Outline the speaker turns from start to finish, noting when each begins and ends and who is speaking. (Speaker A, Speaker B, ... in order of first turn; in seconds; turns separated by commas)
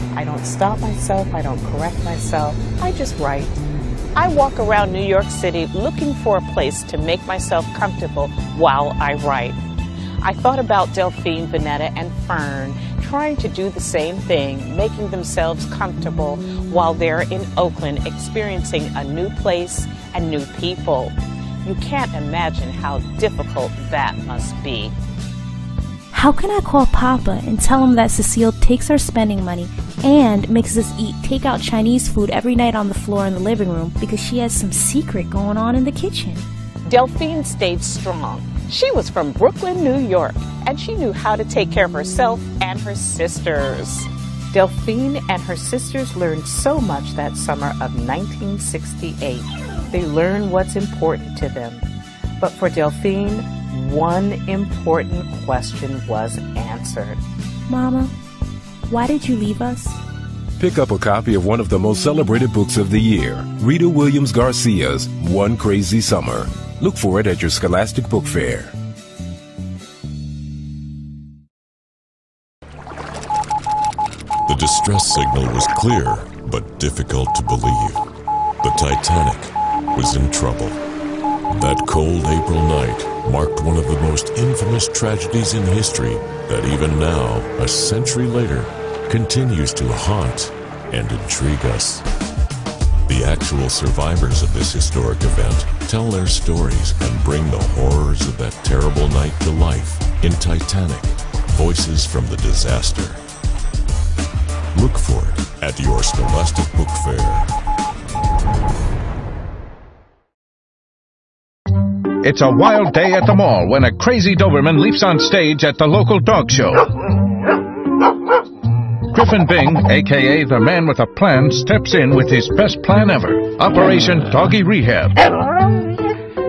Speaker A: 0.1-3.5, Speaker A: 4.2-9.6, Speaker A: 10.2-21.1, Speaker A: 21.6-24.9, Speaker B: 26.1-36.4, Speaker A: 36.9-51.8, Speaker A: 52.4-57.2, Speaker B: 57.7-58.1, Speaker B: 58.9-60.0, Speaker C: 60.6-68.7, Speaker D: 74.5-78.0, Speaker D: 78.6-80.8, Speaker D: 81.5-92.0, Speaker D: 93.1-103.2, Speaker D: 104.7-107.5, Speaker E: 112.2-116.8, Speaker E: 119.1-125.2